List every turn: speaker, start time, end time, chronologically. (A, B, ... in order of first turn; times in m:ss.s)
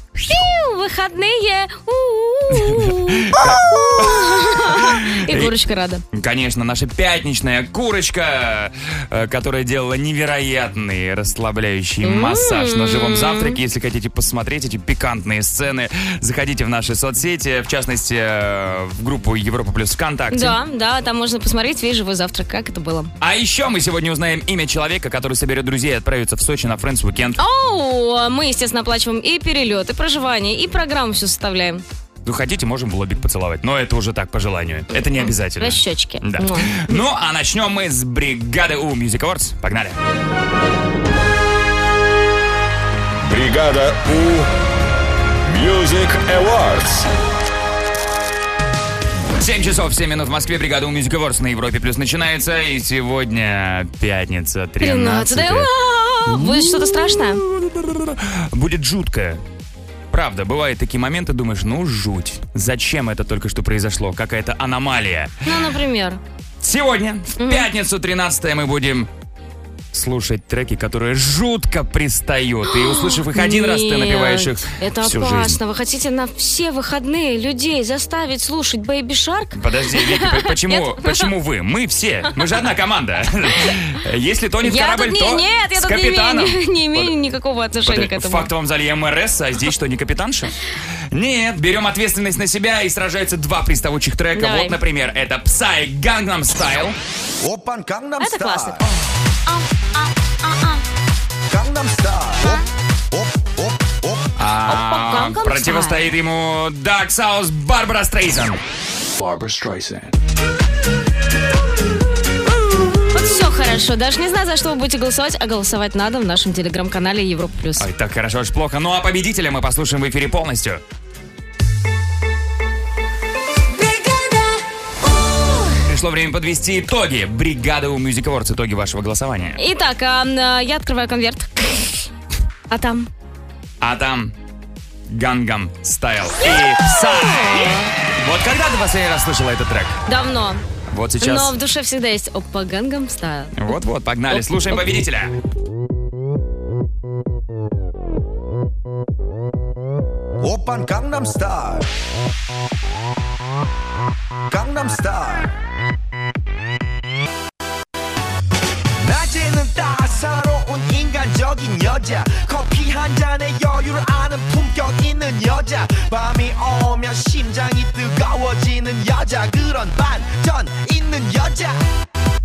0:00.2-0:06.0 A
0:02.5-0:05.5 B
0:06.1-0:20.6 B
0:12.0-0:13.6 A
0:20.3-0:23.1 A
0:23.2-0:27.4 B
0:27.4-0:31.8 A
0:32.2-0:40.0 B
0:35.0-0:37.0 A
0:43.2-0:44.5 C
0:45.4-0:47.1 C
0:49.4-0:55.7 B
0:54.8-0:57.4 A
0:56.3-0:59.4 B
1:00.1-1:05.4 B
1:05.4-1:06.2 A
1:06.6-1:09.1 B
1:07.4-1:07.7 A
1:09.9-1:15.6 B
1:12.7-1:21.2 A
1:19.5-1:27.1 B
1:24.6-1:28.5 A
1:27.8-1:30.5 B
1:31.1-1:37.0 B
1:34.4-1:34.8 A
1:37.4-1:38.9 D
1:38.2-1:38.9 A
1:40.4-1:40.8 A
1:41.5-1:44.3 D
1:44.4-1:48.6 B
1:44.7-1:46.1 A
1:49.7-1:50.0 B
1:53.1-1:57.9 A
1:57.8-2:00.8 B
2:05.8-2:09.6 B
2:09.6-2:12.1 A
2:12.7-2:13.1 A
2:13.8-2:14.3 B
2:15.1-2:20.0 B
2:16.4-2:17.9 A
2:20.1-2:20.6 A
2:20.9-2:21.5 B
2:21.2-2:23.8 A
2:23.6-2:25.3 B
2:24.3-2:24.8 A
2:30.4-2:31.9 D
2:34.5-2:35.6 D
2:39.0-2:51.8 D